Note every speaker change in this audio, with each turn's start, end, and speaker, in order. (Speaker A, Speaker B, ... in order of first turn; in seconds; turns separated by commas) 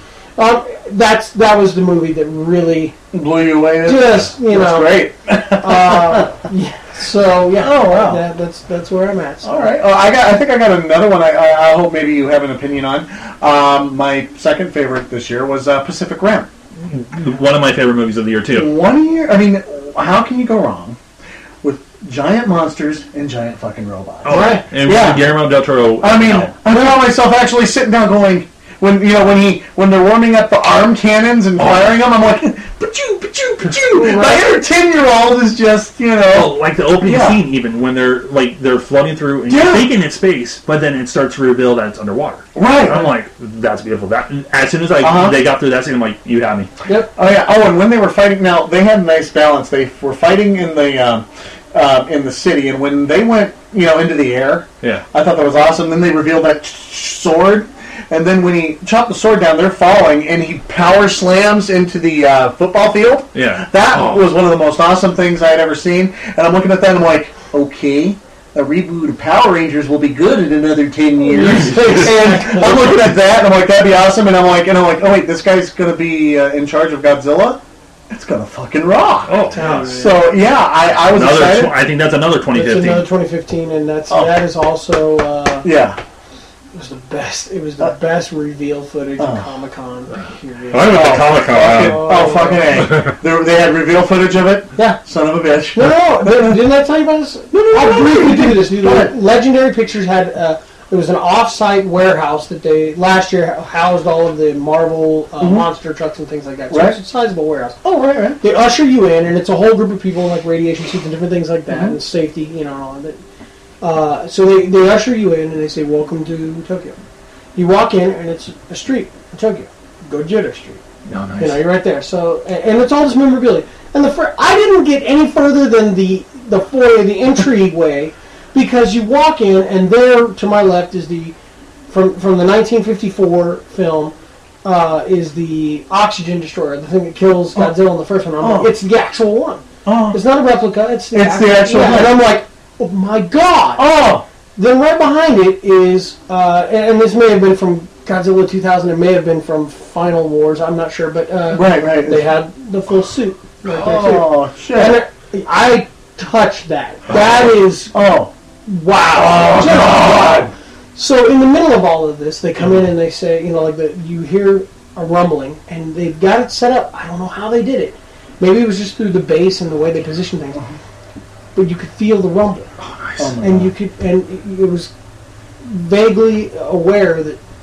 Speaker A: 0.4-3.0, Speaker B: 3.1-6.3, Speaker A: 3.8-9.7, Speaker B: 7.5-8.2, Speaker B: 9.4-16.5, Speaker C: 16.8-18.7, Speaker B: 18.5-21.0, Speaker B: 21.6-25.3, Speaker C: 24.2-26.5, Speaker A: 24.3-24.6, Speaker B: 26.0-37.4, Speaker A: 33.8-34.4, Speaker C: 36.3-46.7, Speaker B: 39.5-39.9, Speaker B: 42.5-43.1, Speaker B: 45.0-45.4, Speaker A: 46.9-47.1, Speaker B: 47.1-81.8, Speaker C: 63.3-64.2, Speaker A: 71.2-73.1, Speaker C: 71.4-72.1, Speaker C: 79.2-79.9, Speaker A: 79.5-80.2, Speaker C: 81.1-83.1, Speaker A: 82.5-85.7, Speaker B: 84.1-84.4, Speaker B: 85.6-86.0, Speaker A: 86.7-92.9, Speaker B: 89.2-89.5, Speaker C: 90.7-92.1, Speaker B: 90.7-96.6, Speaker A: 95.7-107.8, Speaker B: 97.5-99.1, Speaker B: 105.4-105.7, Speaker B: 106.7-107.0, Speaker B: 107.8-108.4, Speaker A: 108.4-113.2, Speaker B: 111.7-112.0, Speaker A: 113.8-117.0, Speaker A: 117.5-120.8, Speaker C: 121.1-121.6, Speaker A: 121.4-131.3, Speaker A: 131.9-143.9, Speaker B: 138.4-138.7, Speaker B: 139.8-140.2, Speaker B: 141.1-142.2, Speaker B: 143.8-144.2, Speaker A: 144.6-157.9, Speaker B: 151.5-152.2, Speaker B: 153.6-155.0, Speaker B: 157.9-158.3, Speaker A: 158.7-170.6, Speaker B: 159.1-160.5, Speaker A: 171.5-172.7, Speaker C: 172.8-173.3, Speaker B: 173.2-173.7, Speaker A: 173.4-174.9, Speaker A: 175.6-177.4